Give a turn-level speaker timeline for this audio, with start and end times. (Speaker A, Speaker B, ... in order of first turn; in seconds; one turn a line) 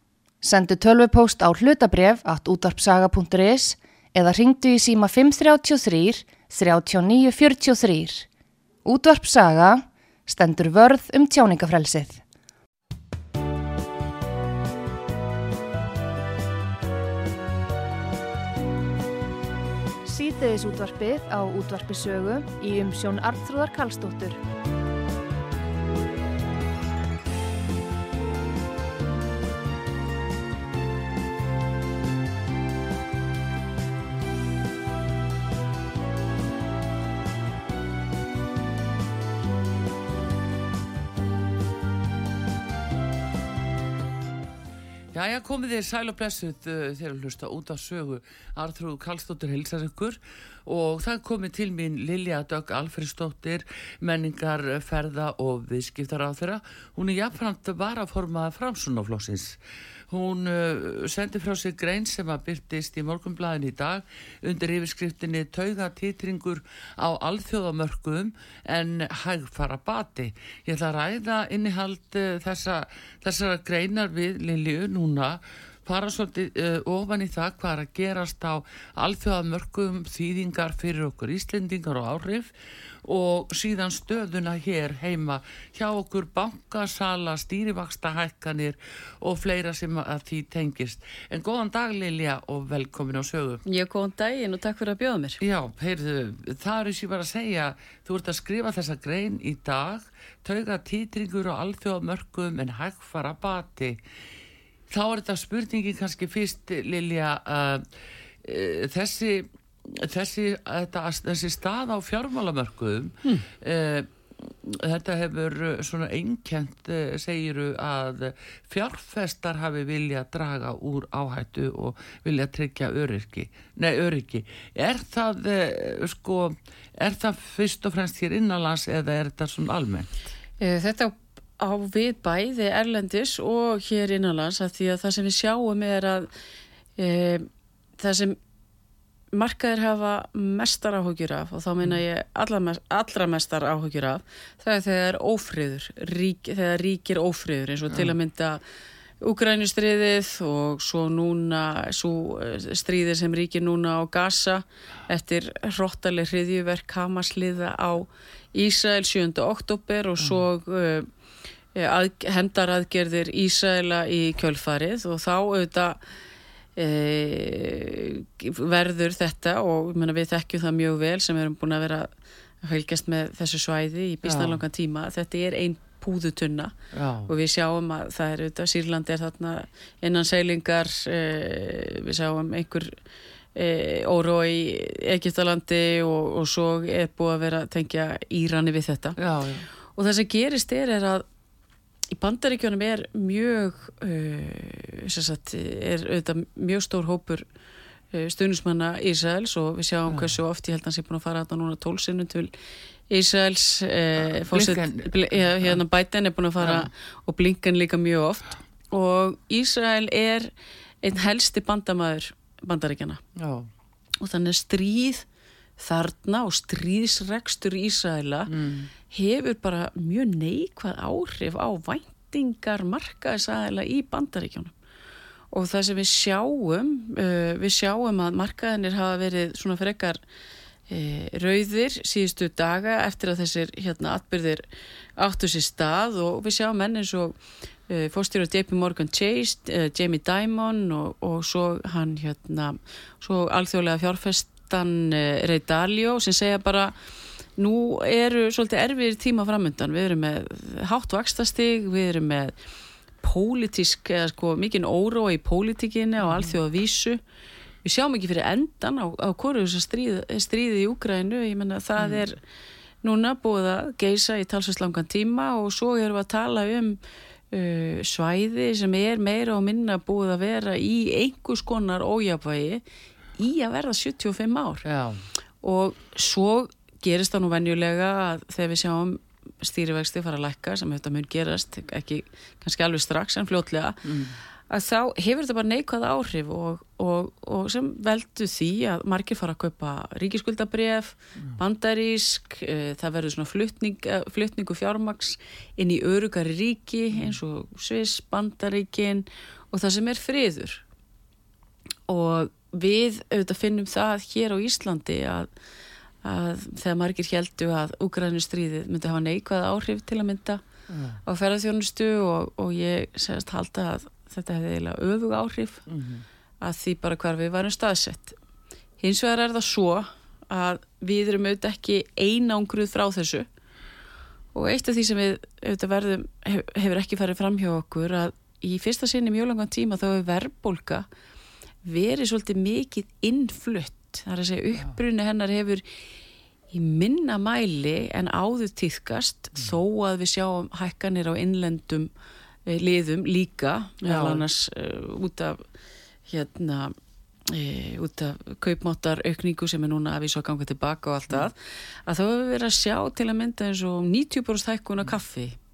Speaker A: 0.4-8.2
Speaker A: 8.8-12.2
Speaker A: 20.0-24.4
Speaker B: 45.1-59.6
Speaker B: 60.1-82.5
Speaker B: 83.0-93.6
Speaker C: 93.6-95.4
Speaker B: 95.4-104.0
Speaker B: 104.9-107.9
Speaker B: 108.4-130.1
Speaker C: 130.6-136.3
Speaker C: 137.0-137.5
Speaker C: 138.0-138.4
Speaker C: 139.3-148.6
Speaker B: 147.9-148.1
Speaker C: 149.2-161.1
Speaker C: 161.7-166.0
Speaker C: 166.8-172.1
Speaker C: 172.6-176.7
Speaker B: 174.2-174.6
Speaker B: 176.9-177.3
Speaker C: 177.3-182.9
Speaker C: 183.5-189.2
Speaker B: 189.2-189.7
Speaker C: 189.9-191.2
Speaker C: 192.1-197.4
Speaker C: 198.1-202.5
Speaker B: 200.1-200.3
Speaker C: 203.1-210.5
Speaker B: 204.2-205.8
Speaker B: 206.6-206.9
Speaker C: 211.0-213.2
Speaker B: 213.4-213.7
Speaker C: 214.2-215.2
Speaker C: 215.8-218.5
Speaker B: 218.5-218.9
Speaker C: 219.1-224.7
Speaker C: 225.5-230.2
Speaker C: 230.9-234.6
Speaker C: 235.2-246.9
Speaker C: 247.6-252.5
Speaker C: 253.2-257.2
Speaker B: 256.2-256.5
Speaker C: 257.8-262.4
Speaker B: 262.0-262.2
Speaker C: 263.0-267.0
Speaker C: 267.5-272.8
Speaker C: 273.4-274.8
Speaker B: 274.8-275.2
Speaker C: 275.6-284.0
Speaker B: 284.0-284.4
Speaker C: 284.7-300.8
Speaker C: 302.1-305.5
Speaker C: 306.2-310.6
Speaker B: 310.9-311.2
Speaker C: 311.2-315.9
Speaker B: 315.9-316.2
Speaker C: 316.6-318.4
Speaker C: 319.0-323.4
Speaker C: 324.5-331.1
Speaker C: 331.8-335.8
Speaker C: 336.7-342.1
Speaker C: 342.7-345.6
Speaker B: 344.0-344.4
Speaker C: 346.3-346.9
Speaker C: 347.5-355.6